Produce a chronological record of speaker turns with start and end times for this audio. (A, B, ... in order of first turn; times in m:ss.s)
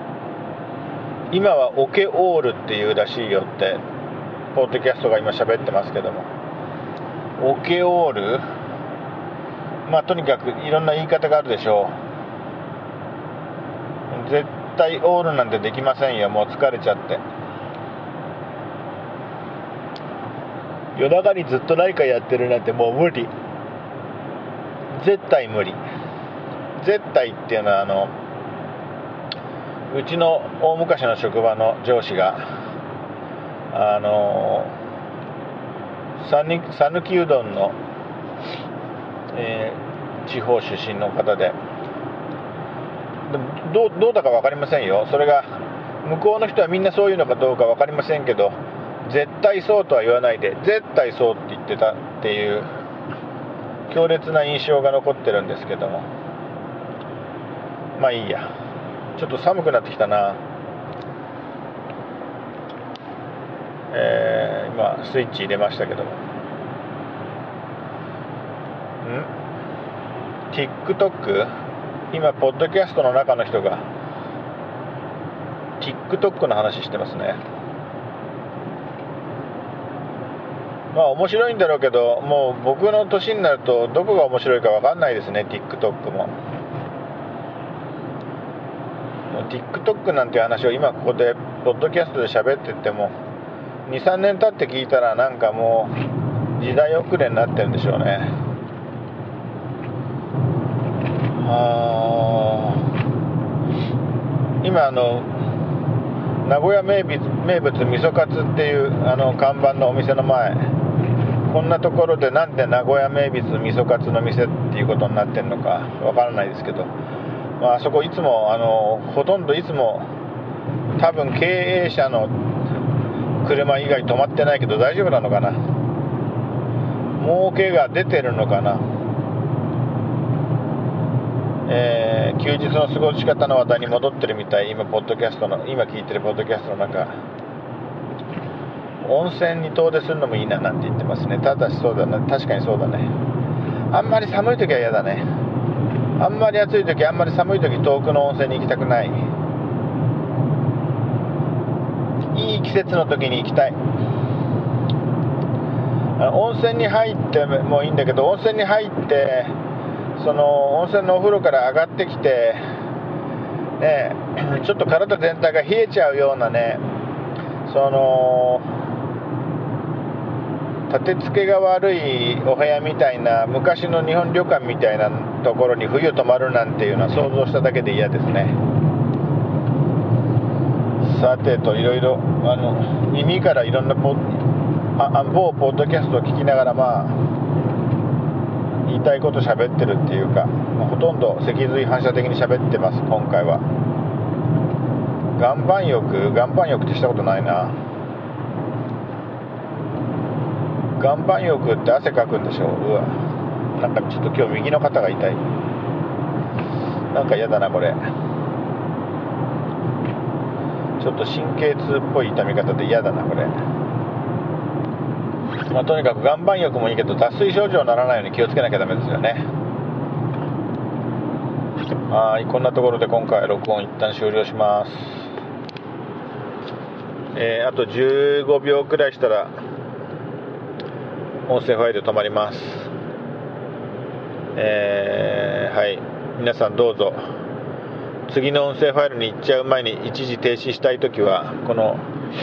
0:01.3-0:03.8 A
0:04.5-0:06.3 A
0:07.4-0:08.4 A
0:09.8-0:12.0 A
0:14.1-0:17.2 A
0:21.0-0:23.3 A
0:24.9-0:25.8 A
0:26.8-0:28.1 A
0:29.9-0:32.5 A
0:33.7-0:34.8 A
0:36.2-0:37.8 A
0:39.3-0:41.6 A
0:43.3-0:45.5 A
0:46.0-0:52.7 A
0:53.9-0:56.1 A
0:58.0-0:58.5 A
0:59.2-1:00.4 A
1:03.9-1:06.2 A
1:09.0-1:09.3 A
1:10.5-1:11.5 A
1:12.1-1:13.8 A
1:15.8-1:17.4 A
1:20.9-1:26.4 A
1:29.3-1:33.2 A
1:33.8-1:35.9 A
1:36.6-1:38.3 A
1:41.4-1:42.9 A
1:44.6-1:45.3 A
1:46.4-1:50.7 A
1:51.5-1:56.9 A
1:57.6-2:00.1 A
2:00.9-2:02.4 A
2:03.4-2:05.6 A
2:07.2-2:08.8 A
2:11.7-2:17.2 A
2:19.0-2:23.1 A
2:23.9-2:25.3 A
2:26.2-2:29.3 A
2:32.3-2:33.8 A
2:36.2-2:39.6 A
2:40.2-2:42.6 A
2:43.8-2:46.8 A
2:47.6-2:48.7 A
2:50.9-2:58.6 A
3:01.0-3:04.4 A
3:05.0-3:07.2 A
3:08.8-3:13.6 A
3:15.4-3:17.8 A
3:21.0-3:23.1 A
3:23.7-3:25.4 A
3:27.1-3:28.0 A
3:31.0-3:33.5 A
3:35.7-3:39.4 A
3:42.1-3:45.3 A
3:47.3-3:49.5 A
3:51.5-3:52.9 A
3:54.6-3:57.2 A
3:58.3-4:02.0 A